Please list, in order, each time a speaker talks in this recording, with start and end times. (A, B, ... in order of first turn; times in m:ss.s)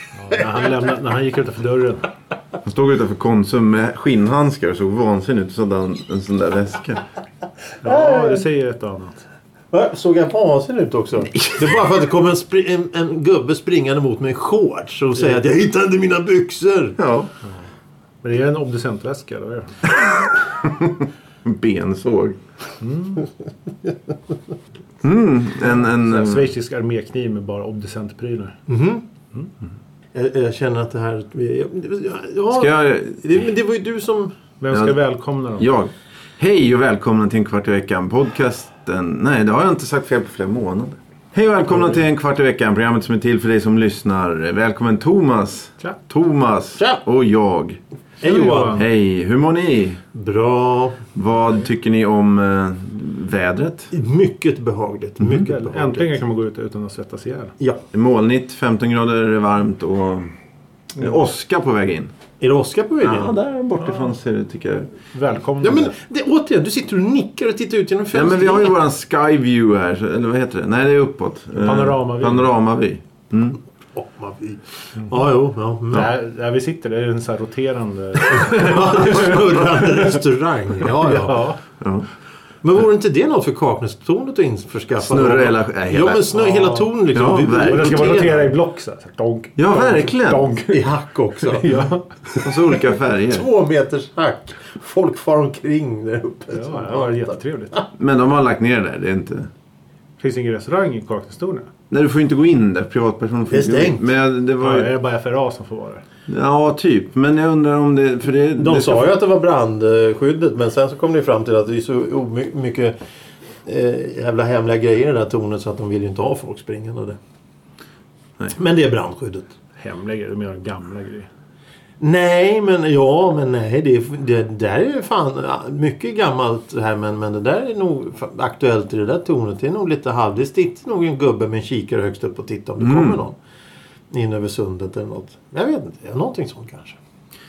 0:00.2-0:02.1 A
0:02.7-0:07.0 B
0:07.8-0:08.4 C
0:07.8-0:09.2 A
0:09.7-0:17.0 C
0:11.3-0:11.8 B
0:17.0-0:17.3 B
0:18.2-0:19.8 A
0:20.1-0:22.4 B
0:22.8-0:23.3 A
0:25.0-0:26.5 B
0:25.7-0:28.6 A
0:28.7-0:29.0 C
0:30.2-0:34.3 C
0:32.5-0:33.4 B
0:34.6-0:35.7 A
0:35.6-0:47.8 B
0:48.2-0:48.8 C
0:48.2-0:48.8 A
0:48.6-0:50.0 B
0:50.1-0:51.0 C
0:51.1-0:53.9 B
0:53.9-0:56.2 C
0:55.4-0:57.5 A
0:57.9-1:00.3 B
1:01.0-1:02.1 B
1:02.4-1:03.3 C
1:03.0-1:04.9 B
1:03.8-1:04.1 A
1:05.1-1:05.9 A
1:05.6-1:08.8 C
1:08.1-1:13.6 B
1:11.6-1:12.5 A
1:14.0-1:16.1 C
1:15.9-1:19.6 A
1:18.3-1:21.5 C
1:21.0-1:21.6 A
1:21.8-1:22.1 B
1:22.6-1:28.5 C
1:25.0-1:26.3 B
1:26.3-1:26.9 A
1:27.1-1:28.4 B
1:27.6-1:32.5 A
1:29.6-1:30.5 B
1:30.7-1:31.8 C
1:32.4-1:33.5 B
1:33.2-1:37.9 C
1:36.5-1:37.7 A
1:38.0-1:39.5 B
1:40.2-1:41.7 A
1:41.9-1:44.9 B
1:43.5-1:44.0 C
1:44.6-1:46.0 A
1:46.3-1:49.1 B
1:48.6-1:52.9 C
1:53.7-1:57.2 C
1:58.5-1:59.5 C
1:59.8-2:01.3 A
2:02.0-2:13.4 C
2:12.8-2:13.2 B
2:14.1-2:17.0 C